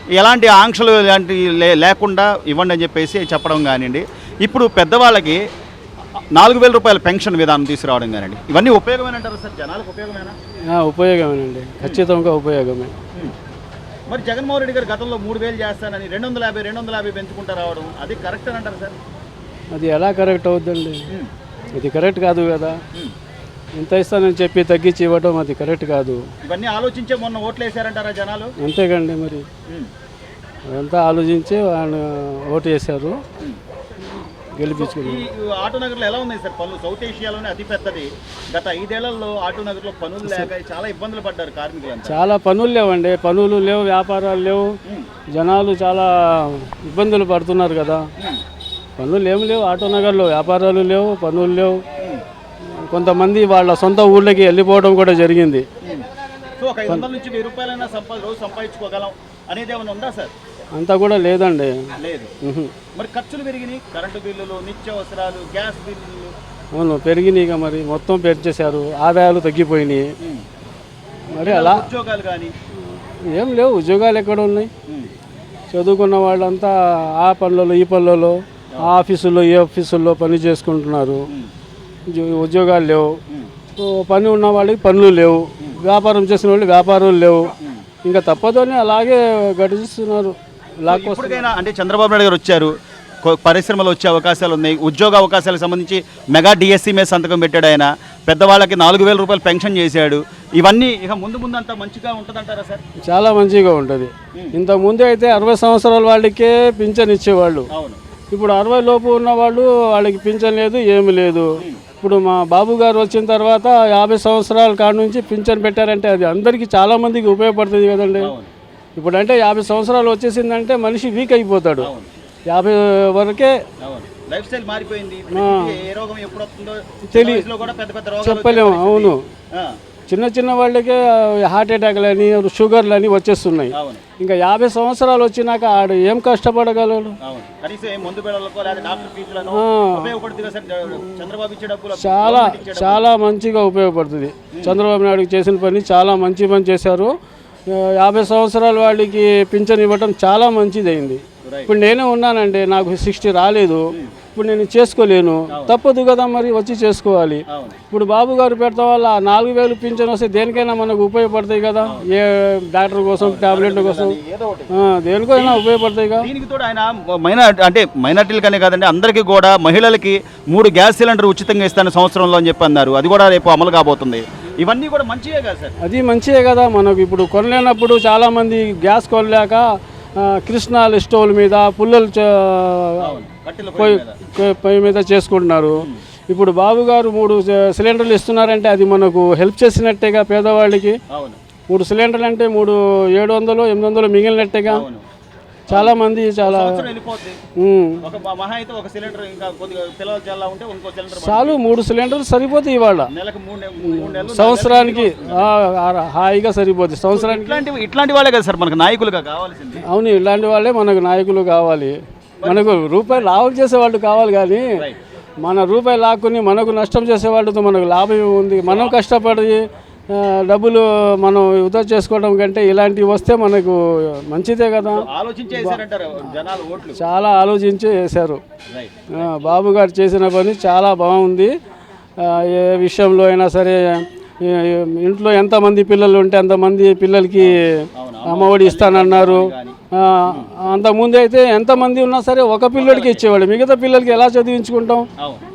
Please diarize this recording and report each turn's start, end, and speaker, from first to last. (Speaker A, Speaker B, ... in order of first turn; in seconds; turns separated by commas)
Speaker A: 0.2-5.4, Speaker A: 6.3-10.3, Speaker B: 10.7-12.9, Speaker A: 14.1-18.9, Speaker B: 19.7-21.0, Speaker B: 21.7-22.8, Speaker B: 23.8-26.2, Speaker A: 26.4-28.5, Speaker B: 28.6-29.4, Speaker B: 30.7-33.2, Speaker B: 34.6-35.2, Speaker A: 34.6-42.2, Speaker B: 40.2-40.5, Speaker B: 42.0-44.7, Speaker B: 45.3-48.1, Speaker B: 49.0-51.8, Speaker B: 52.9-55.6, Speaker A: 56.6-60.3, Speaker B: 60.8-61.9, Speaker A: 62.0-62.3, Speaker B: 62.4-62.7, Speaker A: 62.9-66.3, Speaker B: 66.8-70.1, Speaker B: 71.3-71.9, Speaker A: 71.4-72.5, Speaker B: 73.3-74.7, Speaker B: 75.7-81.2, Speaker B: 82.1-83.1, Speaker B: 83.8-91.5, Speaker A: 90.9-92.7, Speaker A: 93.2-102.8, Speaker B: 103.1-107.7, Speaker A: 107.7-108.0, Speaker B: 108.3-111.5, Speaker B: 112.0-118.3, Speaker A: 118.2-118.5, Speaker B: 119.0-121.9, Speaker A: 121.8-122.1, Speaker B: 122.5-123.5, Speaker A: 123.8-129.8, Speaker B: 125.3-125.8, Speaker B: 127.1-127.5, Speaker B: 128.2-129.2, Speaker B: 130.1-137.2, Speaker A: 133.7-134.0, Speaker A: 137.2-143.1, Speaker B: 139.5-140.1, Speaker B: 142.0-147.1, Speaker A: 144.5-144.8, Speaker B: 147.7-164.2, Speaker A: 151.4-151.7, Speaker A: 155.5-155.8, Speaker A: 157.5-157.8, Speaker A: 163.2-164.7, Speaker B: 164.7-166.3, Speaker A: 165.3-165.6, Speaker A: 166.2-175.7, Speaker B: 175.8-179.6, Speaker B: 180.2-183.2, Speaker A: 183.0-184.2, Speaker B: 183.8-191.0, Speaker A: 191.1-191.4, Speaker B: 191.7-194.8, Speaker A: 194.7-195.0, Speaker B: 195.7-196.9, Speaker A: 195.7-197.4, Speaker B: 197.6-198.0, Speaker A: 198.0-201.6, Speaker B: 201.1-203.1, Speaker A: 203.1-205.5, Speaker B: 203.8-207.6, Speaker A: 207.1-209.8, Speaker B: 209.9-214.7, Speaker A: 212.4-212.7, Speaker B: 215.4-225.8, Speaker A: 218.6-219.0, Speaker A: 224.8-227.0, Speaker B: 226.9-228.4, Speaker A: 228.7-229.4, Speaker B: 229.2-231.5, Speaker B: 232.2-237.7, Speaker A: 237.4-239.7, Speaker B: 238.2-245.1, Speaker A: 242.8-243.2